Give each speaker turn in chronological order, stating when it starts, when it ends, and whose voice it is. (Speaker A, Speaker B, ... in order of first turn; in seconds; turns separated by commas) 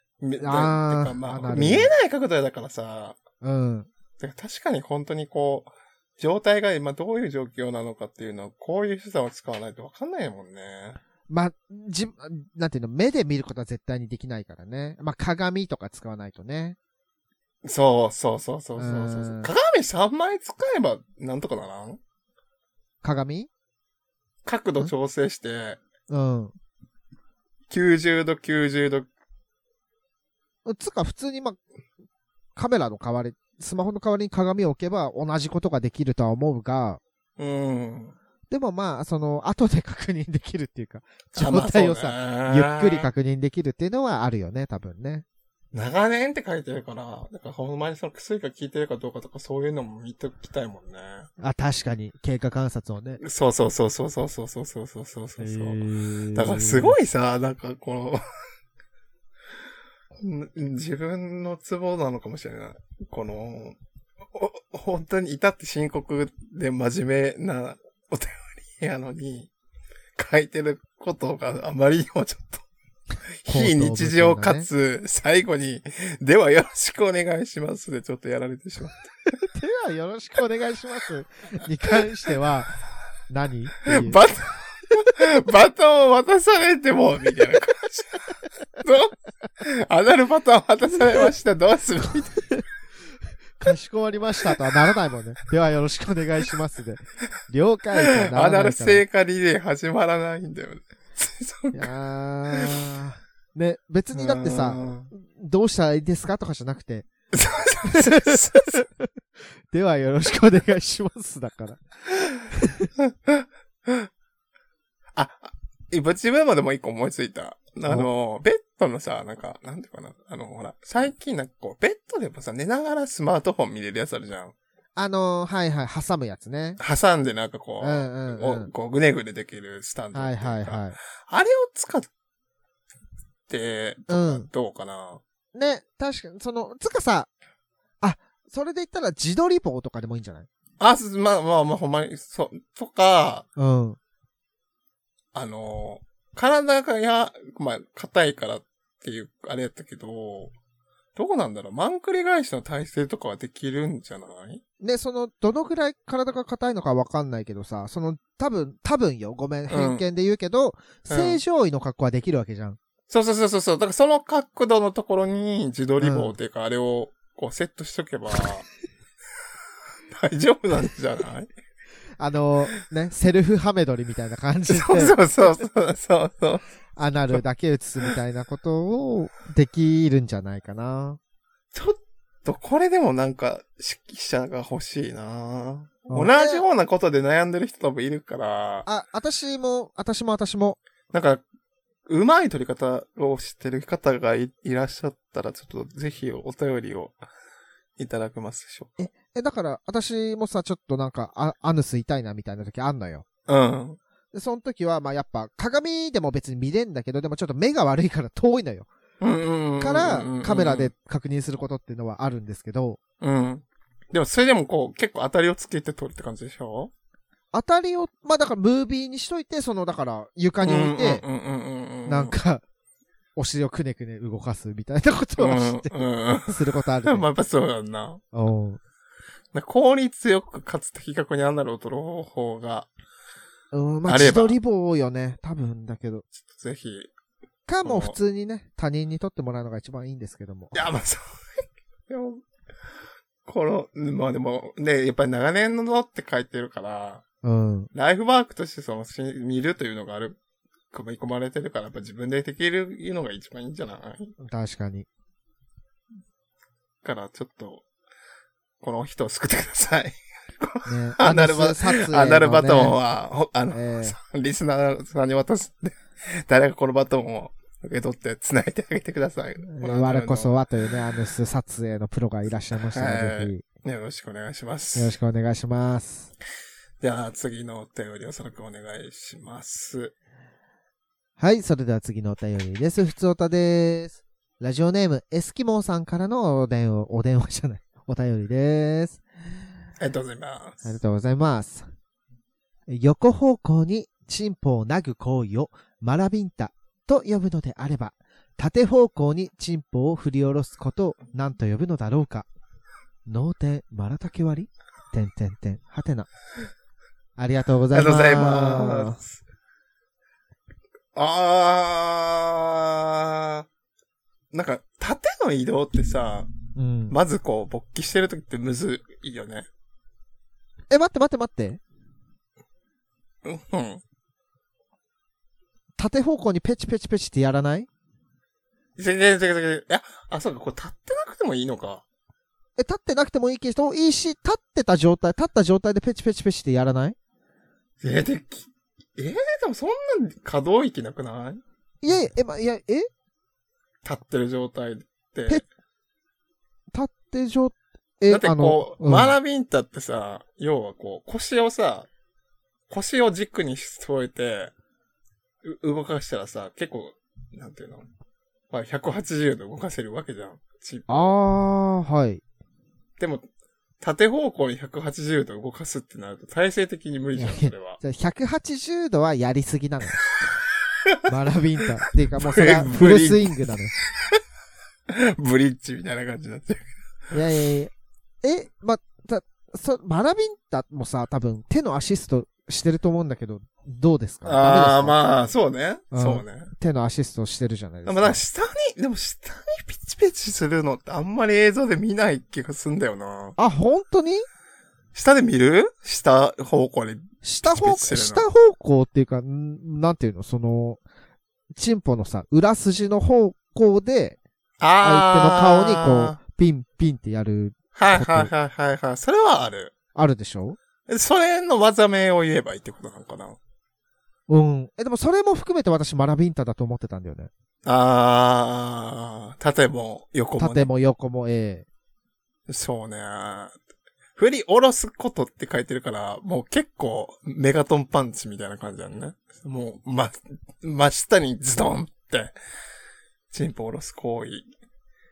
Speaker A: 0.2-3.2, Speaker B: 0.4-1.9, Speaker B: 3.4-3.9, Speaker A: 4.2-11.0, Speaker B: 11.3-16.8, Speaker A: 17.6-22.0, Speaker B: 18.8-19.5, Speaker B: 23.0-23.5, Speaker A: 24.4-25.8, Speaker B: 26.1-26.5, Speaker A: 27.7-29.1, Speaker B: 30.6-31.6, Speaker B: 32.5-37.0, Speaker A: 37.4-38.1, Speaker B: 38.5-45.2, Speaker A: 41.3-43.1, Speaker A: 45.7-51.3, Speaker B: 51.4-53.2, Speaker A: 53.2-55.8, Speaker B: 55.4-57.0, Speaker A: 56.3-58.2, Speaker A: 60.1-63.8, Speaker A: 64.3-69.5, Speaker A: 70.2-72.6, Speaker A: 73.4-79.0, Speaker B: 73.5-74.7, Speaker B: 79.5-84.2, Speaker A: 83.8-88.3, Speaker A: 88.8-92.4, Speaker B: 93.6-99.0, Speaker A: 98.1-101.9, Speaker B: 101.7-107.1, Speaker A: 104.1-105.1, Speaker A: 107.3-108.8, Speaker B: 107.8-109.1, Speaker B: 109.7-111.8, Speaker B: 112.5-112.9, Speaker A: 113.1-114.1, Speaker A: 115.1-124.5, Speaker B: 125.0-126.8, Speaker A: 126.8-132.1, Speaker B: 127.8-128.7, Speaker B: 130.1-131.0, Speaker A: 133.5-135.2, Speaker B: 134.1-134.5, Speaker B: 135.5-137.3, Speaker B: 138.0-140.5, Speaker A: 140.8-143.5, Speaker B: 143.6-144.0, Speaker A: 145.3-150.5, Speaker A: 151.2-154.6, Speaker B: 154.8-162.8, Speaker A: 159.7-160.0, Speaker A: 161.1-161.4, Speaker A: 163.1-168.7, Speaker B: 166.0-166.3, Speaker A: 170.1-171.5, Speaker B: 172.2-175.2, Speaker A: 174.7-176.6, Speaker B: 177.0-181.2, Speaker A: 181.7-188.8, Speaker B: 186.1-186.6, Speaker B: 188.8-190.8, Speaker A: 191.1-191.4, Speaker A: 192.1-197.2, Speaker A: 198.0-199.0, Speaker B: 199.0-203.2, Speaker A: 203.5-204.0, Speaker B: 204.3-208.9, Speaker A: 209.2-210.9, Speaker B: 209.8-213.0, Speaker A: 213.2-216.9, Speaker B: 217.5-221.2, Speaker A: 220.6-222.3, Speaker B: 222.1-222.6, Speaker B: 223.3-227.3, Speaker A: 225.4-228.2, Speaker B: 228.3-228.8, Speaker A: 229.5-232.9, Speaker B: 233.7-236.3, Speaker A: 234.1-234.6, Speaker A: 236.4-237.1, Speaker B: 237.7-240.8, Speaker A: 237.8-238.2, Speaker A: 240.7-241.4, Speaker A: 242.1-242.4, Speaker A: 243.4-247.2, Speaker B: 247.4-247.9, Speaker A: 247.9-250.4, Speaker A: 250.9-254.3, Speaker B: 254.4-255.1, Speaker A: 257.0-257.8, Speaker A: 258.8-270.5, Speaker B: 260.8-263.0, Speaker B: 263.7-264.1, Speaker B: 269.6-273.6, Speaker A: 272.9-275.1, Speaker B: 274.9-276.3, Speaker A: 277.0-280.1, Speaker B: 281.4-289.2, Speaker A: 290.0-290.8, Speaker B: 290.8-291.9, Speaker B: 292.9-302.5, Speaker B: 303.2-306.3, Speaker B: 307.4-309.2, Speaker A: 307.9-309.4, Speaker A: 311.1-313.7, Speaker A: 314.5-316.5, Speaker B: 316.8-317.1, Speaker A: 317.1-319.7, Speaker B: 320.9-321.8, Speaker A: 323.4-324.0, Speaker B: 326.0-327.9, Speaker A: 329.0-332.0, Speaker B: 332.8-337.1, Speaker A: 338.0-341.6, Speaker B: 342.0-343.1, Speaker A: 344.0-345.6, Speaker B: 346.9-349.3, Speaker A: 348.3-352.1, Speaker A: 352.9-354.7, Speaker A: 355.6-358.0, Speaker A: 358.7-361.3, Speaker B: 361.1-362.4, Speaker A: 363.2-363.4, Speaker A: 364.0-368.0, Speaker B: 367.4-370.2, Speaker B: 371.3-373.9, Speaker A: 372.4-373.7, Speaker A: 375.1-376.9, Speaker B: 377.3-377.9, Speaker B: 378.4-385.1, Speaker A: 384.4-386.7, Speaker B: 386.1-388.4, Speaker A: 388.1-393.6, Speaker B: 393.6-394.4, Speaker A: 395.1-398.5, Speaker B: 397.4-401.0, Speaker B: 401.7-404.4, Speaker A: 404.8-406.4, Speaker B: 405.0-408.5, Speaker A: 407.9-409.9, Speaker B: 410.1-410.8, Speaker A: 411.1-413.6, Speaker B: 414.5-417.5, Speaker A: 417.8-420.9, Speaker B: 420.6-421.9, Speaker A: 422.7-423.8, Speaker A: 424.4-432.5, Speaker A: 433.5-434.7